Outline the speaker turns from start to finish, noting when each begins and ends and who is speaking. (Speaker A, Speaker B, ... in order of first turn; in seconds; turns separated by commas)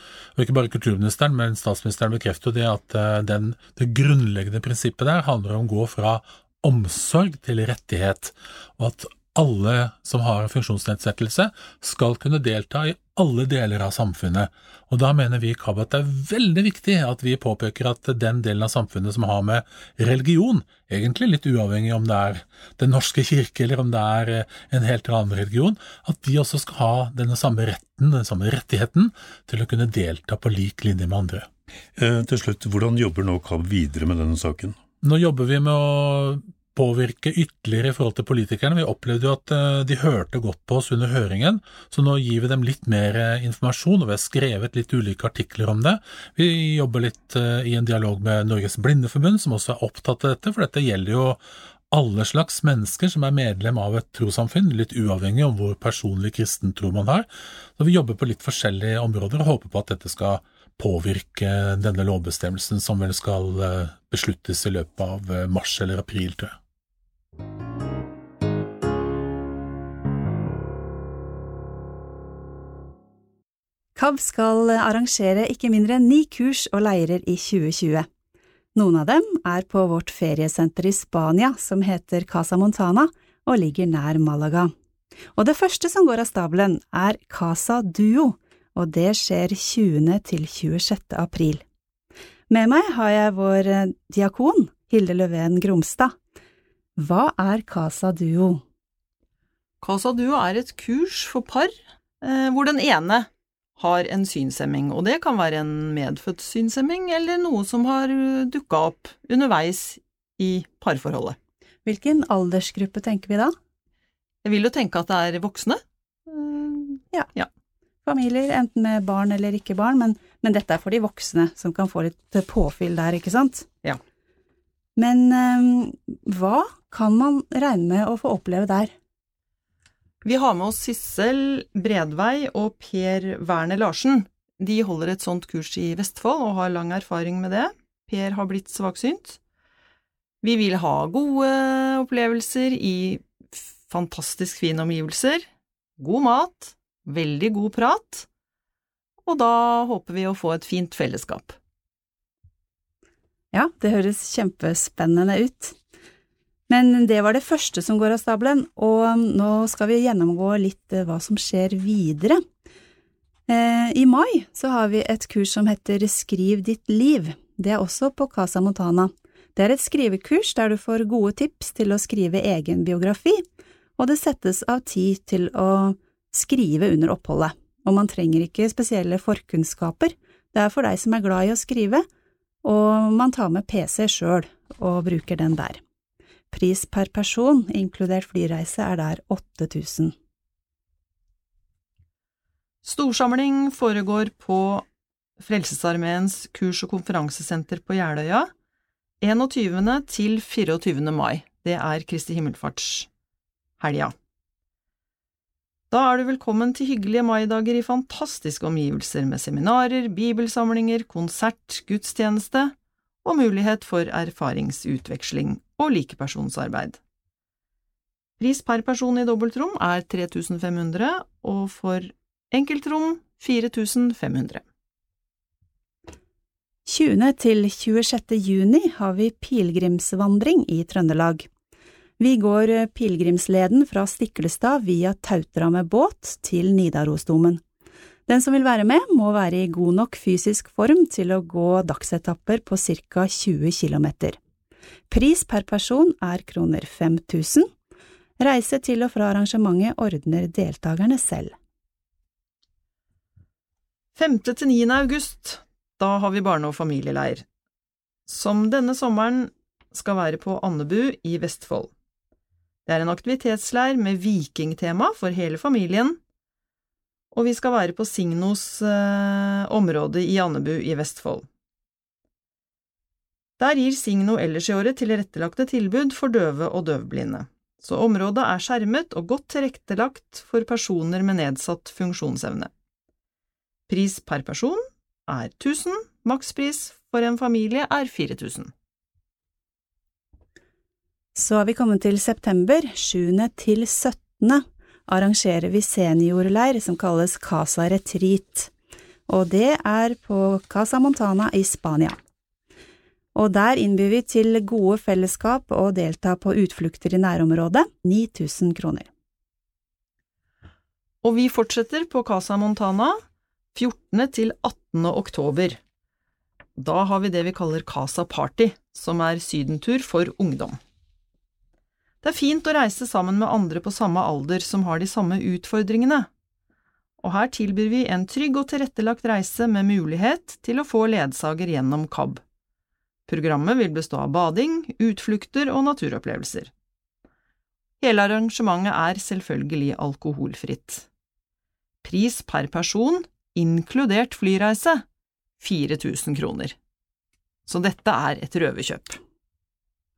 Speaker A: 0.3-31.5, Speaker B: 32.0-34.8, Speaker A: 35.0-51.4, Speaker A: 51.9-66.5, Speaker C: 74.0-78.1, Speaker C: 78.7-84.7, Speaker C: 85.3-91.6, Speaker C: 92.5-96.1, Speaker C: 97.0-98.6, Speaker D: 99.8-111.4, Speaker C: 111.8-113.5, Speaker D: 114.4-117.5, Speaker C: 118.0-123.7, Speaker C: 125.0-128.9, Speaker D: 130.2-139.4, Speaker D: 140.4-145.5, Speaker D: 146.0-148.3, Speaker D: 149.2-151.6, Speaker C: 153.5-155.8, Speaker C: 156.7-162.4, Speaker C: 163.5-173.4, Speaker C: 174.0-182.1, Speaker C: 182.6-185.8, Speaker C: 186.5-190.1, Speaker D: 192.8-194.8, Speaker D: 195.4-198.5, Speaker D: 199.2-203.1, Speaker D: 203.8-204.1, Speaker D: 205.9-217.0, Speaker D: 218.4-224.6, Speaker C: 226.9-231.5, Speaker C: 232.2-237.6, Speaker C: 238.3-244.4, Speaker C: 245.1-247.7, Speaker C: 248.4-251.5, Speaker D: 254.2-257.4, Speaker D: 258.3-261.9, Speaker D: 262.9-266.2, Speaker D: 267.3-271.4, Speaker D: 273.6-282.7, Speaker D: 283.9-288.7, Speaker C: 291.4-298.7, Speaker C: 299.3-302.2, Speaker C: 303.3-309.1, Speaker D: 311.2-313.2, Speaker D: 313.7-315.8, Speaker D: 316.8-320.8, Speaker D: 322.2-326.3, Speaker D: 327.2-332.4, Speaker D: 333.3-336.7, Speaker D: 338.0-341.1, Speaker D: 342.0-345.1, Speaker D: 345.6-346.8, Speaker D: 347.7-349.2